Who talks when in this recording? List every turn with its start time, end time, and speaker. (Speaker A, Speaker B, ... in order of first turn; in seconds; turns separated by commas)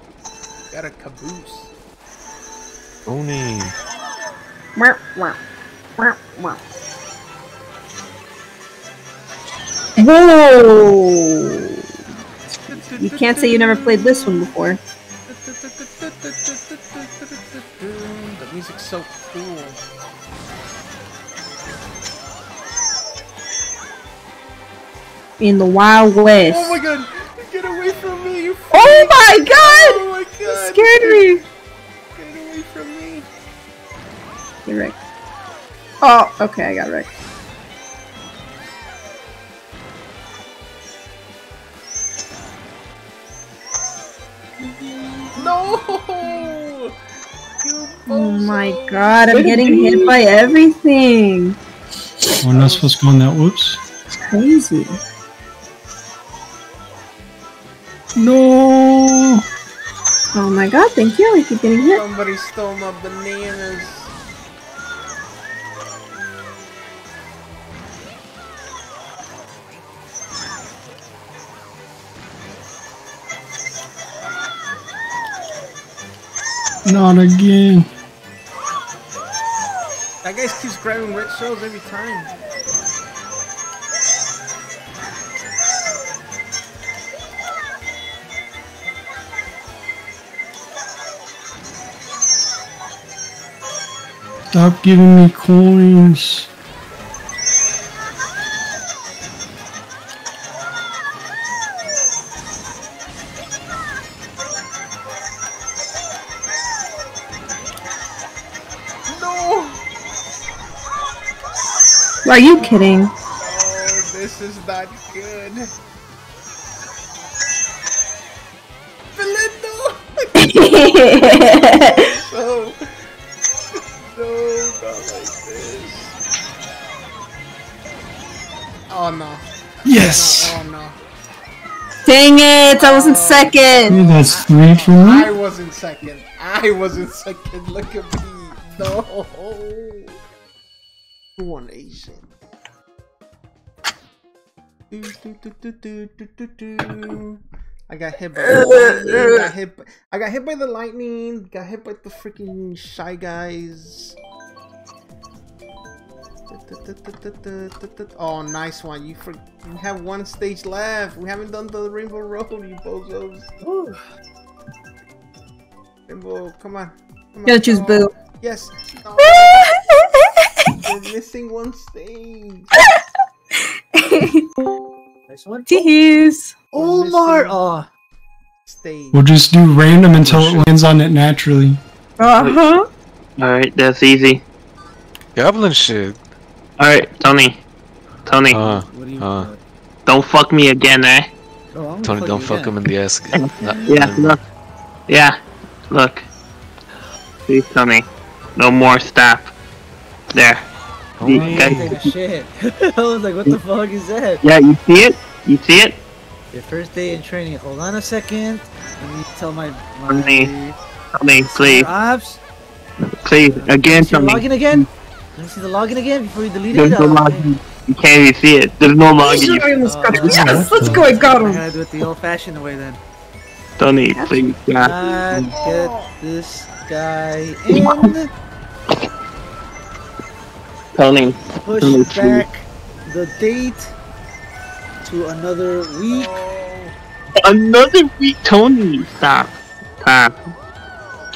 Speaker A: 0.7-1.7, Speaker B: 3.0-3.7, Speaker C: 4.8-5.4, Speaker C: 6.0-6.6, Speaker C: 10.0-11.8, Speaker A: 12.6-14.8, Speaker C: 13.0-14.8, Speaker A: 15.3-19.8, Speaker C: 25.4-26.8, Speaker A: 26.5-31.3, Speaker C: 28.7-31.4, Speaker A: 32.1-33.3, Speaker C: 34.6-35.0, Speaker C: 36.0-37.1, Speaker A: 45.3-46.9, Speaker A: 47.6-49.4, Speaker C: 48.1-51.6, Speaker D: 49.3-50.1, Speaker D: 52.4-53.8, Speaker A: 52.4-53.0, Speaker C: 54.2-55.0, Speaker D: 58.1-59.4, Speaker C: 60.3-62.0, Speaker A: 61.9-64.1, Speaker D: 76.8-77.9, Speaker A: 80.2-82.4, Speaker D: 94.5-96.5, Speaker A: 109.1-109.8, Speaker C: 112.2-113.1, Speaker A: 112.5-115.7, Speaker A: 119.2-122.8, Speaker C: 120.4-122.1, Speaker A: 124.1-126.1, Speaker A: 128.9-131.0, Speaker D: 129.8-130.6, Speaker C: 132.1-134.0, Speaker A: 132.8-140.2, Speaker D: 133.9-135.3, Speaker A: 141.4-142.3, Speaker A: 144.9-154.2, Speaker C: 148.4-149.5, Speaker A: 156.5-163.5, Speaker E: 163.6-164.0, Speaker A: 166.1-169.7, Speaker C: 167.4-168.1, Speaker C: 169.2-170.8, Speaker A: 170.8-172.7, Speaker C: 172.8-173.0, Speaker C: 173.9-174.5, Speaker E: 175.3-175.9, Speaker C: 175.7-176.6, Speaker E: 176.7-177.9, Speaker A: 176.7-177.6, Speaker A: 178.7-179.3, Speaker D: 179.1-181.8, Speaker B: 180.2-180.7, Speaker C: 182.2-182.8, Speaker F: 183.4-184.4, Speaker B: 185.3-186.2, Speaker F: 186.8-187.6, Speaker F: 188.2-188.7, Speaker B: 188.5-189.5, Speaker E: 188.7-189.6, Speaker F: 190.1-191.3, Speaker E: 191.7-192.8, Speaker B: 192.0-194.3, Speaker F: 193.3-194.4, Speaker E: 193.6-194.1, Speaker F: 195.1-195.4, Speaker F: 195.9-196.3, Speaker F: 197.5-198.0, Speaker F: 198.6-199.5, Speaker F: 200.3-200.6, Speaker B: 201.2-201.9, Speaker F: 201.2-202.1, Speaker D: 201.2-201.8, Speaker E: 201.2-204.4, Speaker F: 204.4-206.0, Speaker E: 206.5-210.8, Speaker F: 210.1-210.5, Speaker F: 211.2-211.9, Speaker E: 211.4-212.4, Speaker F: 213.0-214.9, Speaker E: 213.4-217.4, Speaker F: 216.7-220.2, Speaker C: 219.2-221.6, Speaker E: 219.8-223.0, Speaker D: 220.2-221.1, Speaker F: 223.8-225.5, Speaker C: 224.1-224.5, Speaker E: 224.8-228.3, Speaker A: 225.5-226.2, Speaker F: 227.7-228.2, Speaker F: 230.9-232.4, Speaker E: 231.6-233.9, Speaker E: 235.0-236.3, Speaker A: 236.1-236.9, Speaker F: 237.4-240.5